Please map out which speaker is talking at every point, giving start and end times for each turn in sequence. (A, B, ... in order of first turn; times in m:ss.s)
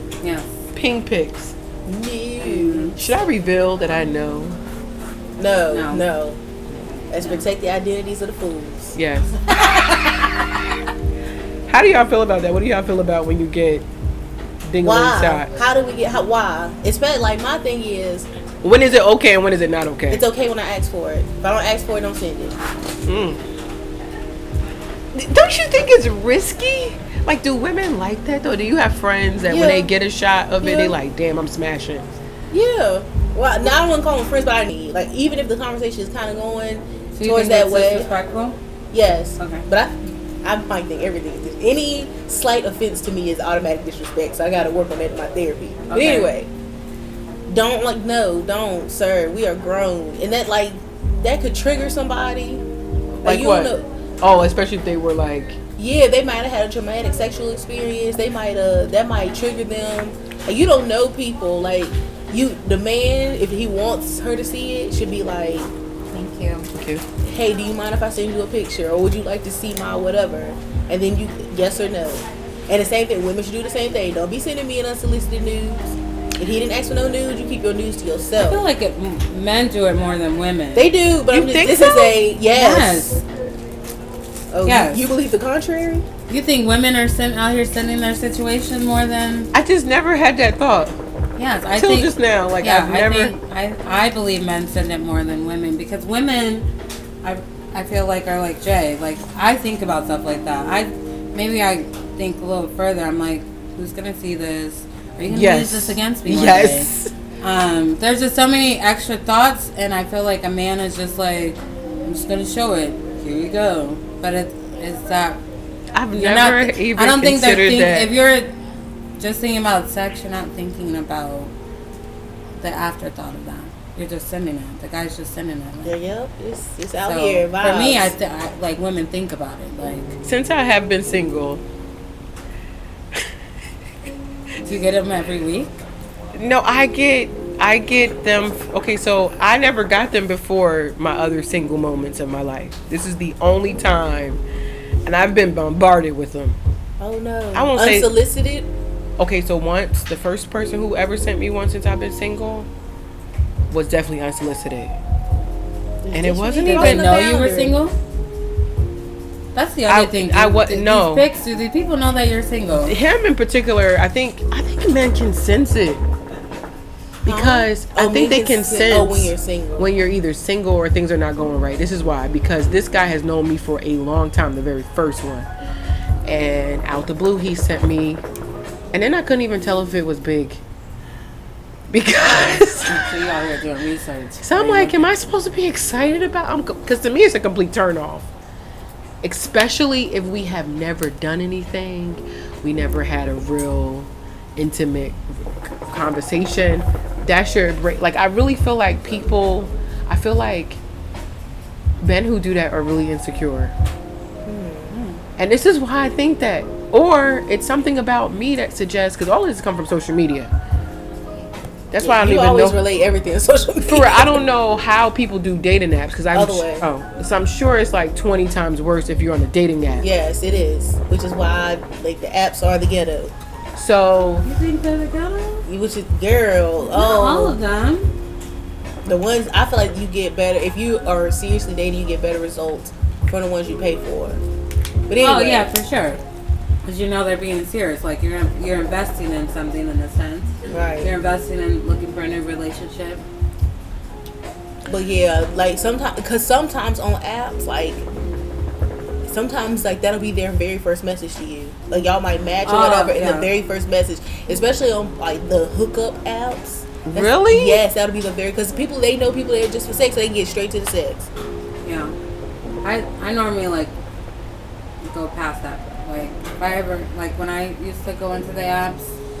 0:00.2-0:00.5 A
0:00.7-0:01.5 B
0:01.9-0:02.9 C
0:02.4-0:03.0 A
0:02.9-0:04.6 B
0:05.4-0:06.4 C
0:05.7-0:06.1 A
0:06.7-0:07.4 A
0:07.1-0:09.0 C
0:08.9-0:09.4 B
0:11.7-0:13.8 B
0:14.6-0:15.5 B
0:14.8-0:18.3 C
0:18.6-0:20.2 B
0:20.1-0:22.6 C
0:23.0-0:23.4 B
0:25.1-0:32.1 B
0:29.4-0:29.9 C
0:30.6-0:31.0 C
0:32.5-0:38.1 C
0:37.1-0:38.6 A
0:38.9-0:46.5 C
0:39.4-0:39.6 A
0:45.9-0:46.3 A
0:47.5-0:52.6 C
0:53.2-0:55.6 B
0:53.2-0:53.9 C
0:55.8-1:05.7 C
1:06.1-1:06.7 A
1:06.7-1:07.0 B
1:07.2-1:18.7 C
1:18.4-1:20.9 A
1:20.7-1:23.2 C
1:21.3-1:22.2 B
1:22.5-1:23.2 A
1:24.5-1:26.0 C
1:24.6-1:25.1 A
1:26.3-1:29.5 A
1:29.5-1:30.9 B
1:31.4-1:36.7 A
1:31.7-1:33.3 B
1:37.2-1:55.4 A
1:45.3-1:47.1 B
1:55.9-1:58.1 B
1:56.1-1:58.5 A
1:59.2-2:01.5 A
2:02.6-2:06.0 A
2:05.8-2:08.2 C
2:07.0-2:10.2 A
2:10.2-2:11.6 B
2:14.6-2:15.7 A
2:16.3-2:24.4 B
2:25.0-2:26.6 B
2:27.0-2:28.7 C
2:27.5-2:28.1 B
2:29.2-2:32.7 B
2:33.7-2:35.0 B
2:36.0-2:37.8 C
2:36.1-2:37.2 B
2:36.6-2:37.9 A
2:39.5-2:43.0 A
2:39.9-2:41.2 B
2:42.8-2:46.0 B
2:47.2-2:49.9 C
2:47.2-2:55.5 B
2:56.2-2:58.2 B
2:58.9-3:00.6 B
3:01.9-3:03.2 B
3:02.5-3:05.0 A
3:04.4-3:08.2 B
3:09.2-3:20.8 B
3:22.0-3:23.7 B
3:24.4-3:24.9 C
3:24.9-3:25.2 A
3:25.4-3:30.5 B
3:31.9-3:32.8 B
3:32.0-3:34.4 C
3:33.8-3:40.0 B
3:36.3-3:36.8 C
3:40.0-3:43.3 C
3:43.7-3:44.5 B
3:44.4-3:45.6 A
3:45.7-3:47.6 C
3:46.8-3:48.1 A
3:49.0-3:54.4 C
3:55.1-3:55.7 C
3:55.2-3:56.2 A
3:56.8-4:03.2 A
4:00.7-4:01.1 C
4:04.8-4:08.0 C
4:09.2-4:21.3 C
4:12.6-4:13.5 A
4:17.0-4:17.8 B
4:21.8-4:22.2 A
4:22.8-4:23.9 A
4:25.0-4:29.1 A